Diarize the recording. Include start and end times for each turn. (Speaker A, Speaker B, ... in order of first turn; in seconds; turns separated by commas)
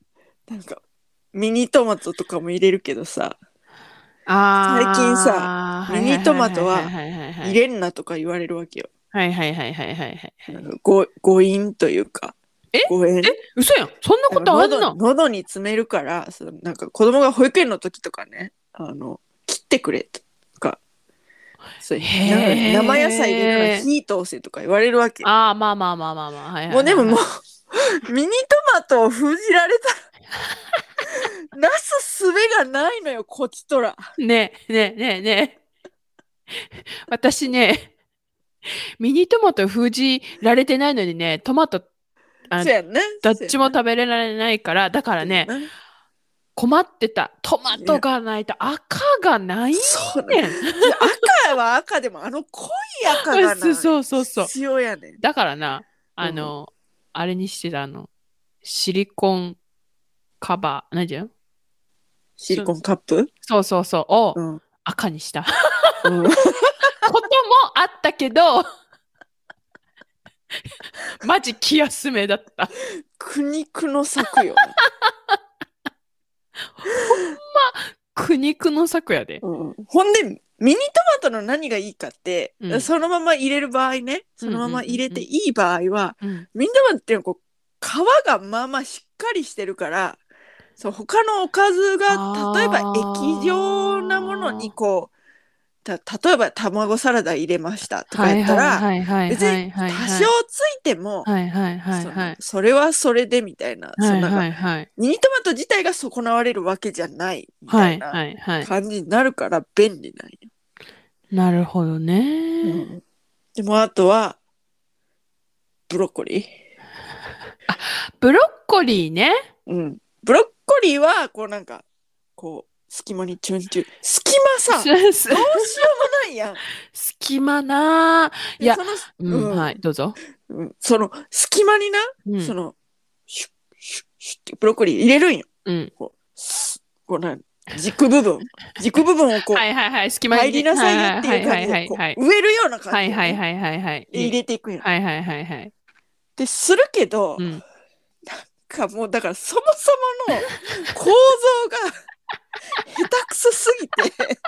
Speaker A: 0.5-0.8, Speaker A: 1.3-3.4, Speaker B: 4.2-7.6, Speaker A: 4.7-8.9, Speaker B: 9.1-10.6, Speaker A: 10.5-13.4, Speaker B: 12.7-15.0, Speaker A: 14.3-20.8, Speaker A: 21.8-25.3, Speaker B: 22.0-23.9, Speaker B: 25.2-27.2, Speaker A: 26.7-29.9, Speaker A: 31.2-34.0, Speaker B: 34.2-35.6, Speaker B: 36.5-37.9, Speaker B: 39.0-41.9, Speaker B: 42.5-45.5, Speaker A: 42.6-43.7, Speaker A: 45.2-45.7, Speaker B: 46.5-51.3, Speaker A: 47.7-48.0, Speaker A: 49.7-55.2, Speaker B: 53.2-54.5, Speaker B: 55.2-58.1, Speaker A: 56.2-56.5, Speaker B: 58.6-59.6, Speaker B: 60.4-61.3, Speaker A: 62.4-63.3, Speaker B: 63.5-66.1, Speaker A: 64.3-64.6, Speaker A: 66.0-66.9, Speaker B: 67.0-68.7, Speaker B: 71.1-72.7, Speaker A: 73.2-74.8, Speaker B: 74.8-75.4, Speaker B: 76.8-79.4, Speaker A: 79.4-90.2, Speaker B: 82.6-82.9, Speaker B: 84.4-85.2, Speaker A: 90.8-95.1, Speaker B: 92.1-94.7, Speaker A: 95.8-101.3, Speaker B: 98.1-100.3, Speaker B: 101.2-102.4, Speaker A: 101.9-110.5, Speaker B: 104.0-104.9, Speaker B: 107.7-108.7, Speaker B: 111.3-112.8, Speaker A: 112.6-113.0, Speaker A: 113.5-114.4, Speaker A: 115.9-116.5, Speaker B: 117.7-119.5, Speaker A: 119.7-121.8, Speaker A: 122.4-126.6, Speaker B: 124.7-125.9, Speaker B: 126.8-130.2, Speaker A: 128.6-129.7, Speaker A: 130.5-132.7, Speaker B: 132.2-132.5, Speaker A: 133.3-139.6, Speaker B: 135.7-135.9, Speaker B: 139.5-142.2, Speaker A: 140.3-143.4, Speaker B: 142.9-145.7, Speaker A: 144.1-144.8, Speaker A: 146.4-147.5, Speaker B: 147.4-147.6, Speaker A: 148.3-152.0, Speaker A: 152.8-154.4